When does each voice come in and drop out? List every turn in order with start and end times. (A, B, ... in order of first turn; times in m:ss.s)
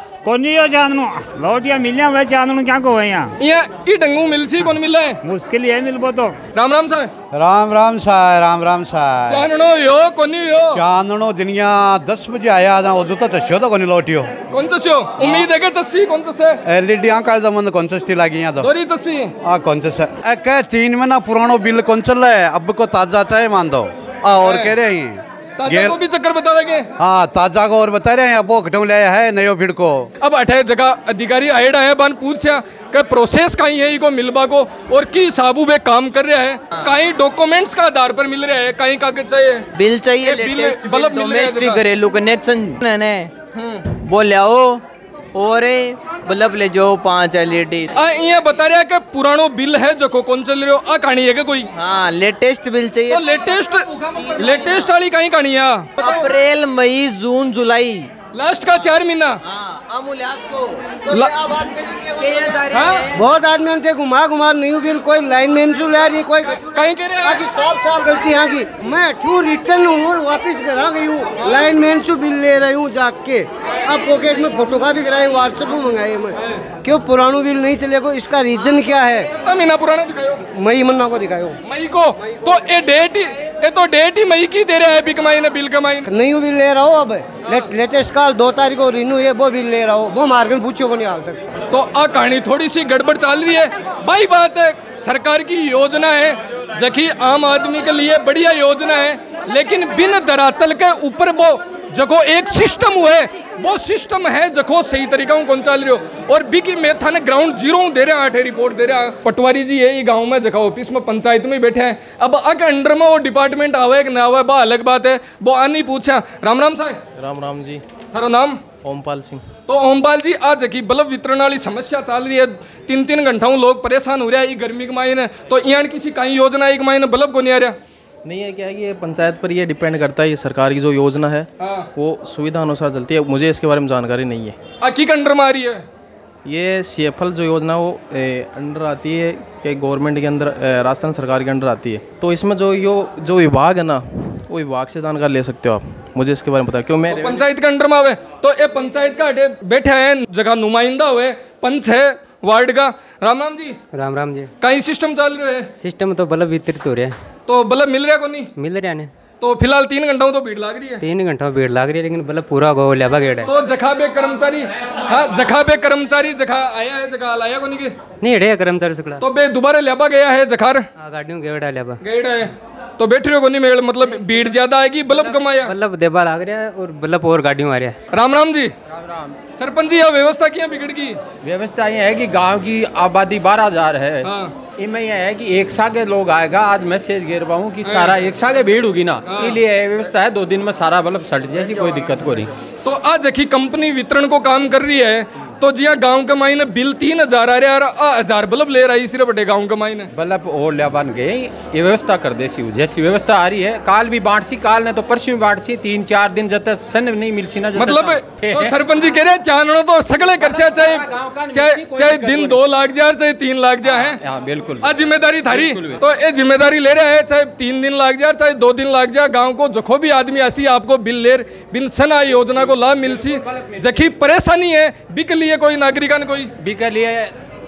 0:00.2-0:03.3 A
0:03.4-0:05.2 B
0:05.2-0:06.4 A
0:06.6-0:07.1 B
0:07.3-0:09.4 C
0:09.3-0:10.8 B
0:10.7-0:14.3 C
0:14.5-0:16.6 B
0:15.2-0:15.5 C
0:16.7-0:18.7 C
0:18.6-0:19.3 B
0:19.4-0:26.0 C
0:24.4-0:24.7 B
0:25.6-0:26.9 B
0:27.0-0:30.1 C
0:30.2-0:39.6 B
0:39.8-0:43.3 D
0:40.2-0:41.8 B
0:43.9-0:44.8 D
0:45.4-0:47.9 D
0:48.0-0:51.7 B
0:51.8-0:53.2 D
0:53.1-0:55.9 B
0:54.2-0:54.7 D
0:56.0-0:58.1 D
0:58.3-0:59.4 B
0:59.5-1:00.8 D
1:01.1-1:19.3 E
1:02.2-1:02.9 D
1:02.7-1:03.1 B
1:06.6-1:07.4 B
1:19.4-1:20.4 B
1:20.5-1:21.6 E
1:21.6-1:26.1 B
1:26.1-1:31.4 E
1:31.7-1:57.0 B
1:57.2-1:57.8 F
1:58.1-1:58.6 B
1:58.8-1:59.4 F
1:59.7-2:07.8 B
2:08.3-2:11.4 F
2:11.6-2:11.9 B
2:12.0-2:14.5 F
2:14.8-2:15.8 B
2:16.5-2:27.2 F
2:27.1-2:33.8 B
2:33.9-2:34.5 G
2:34.6-2:35.7 B
2:35.8-2:37.2 G
2:37.5-2:38.5 B
2:38.6-2:39.1 G
2:39.4-2:41.0 B
2:41.0-2:43.5 G
2:43.4-2:47.9 B
2:48.2-2:49.2 G
2:49.2-2:50.9 B
2:51.0-2:52.0 G
2:52.0-2:55.8 B
2:55.1-2:58.0 G
2:58.1-2:58.7 B
2:58.9-2:59.4 H
2:59.5-3:01.2 B
3:01.4-3:12.5 H
3:04.2-3:04.5 B
3:07.9-3:08.1 B
3:09.3-3:09.6 B
3:12.8-3:20.1 B
3:20.2-3:28.8 H
3:27.8-3:34.2 B
3:30.4-3:32.6 H
3:33.8-3:34.9 H
3:34.8-3:46.5 B
3:35.5-3:36.0 H
3:42.6-3:44.1 H
3:46.6-3:47.3 H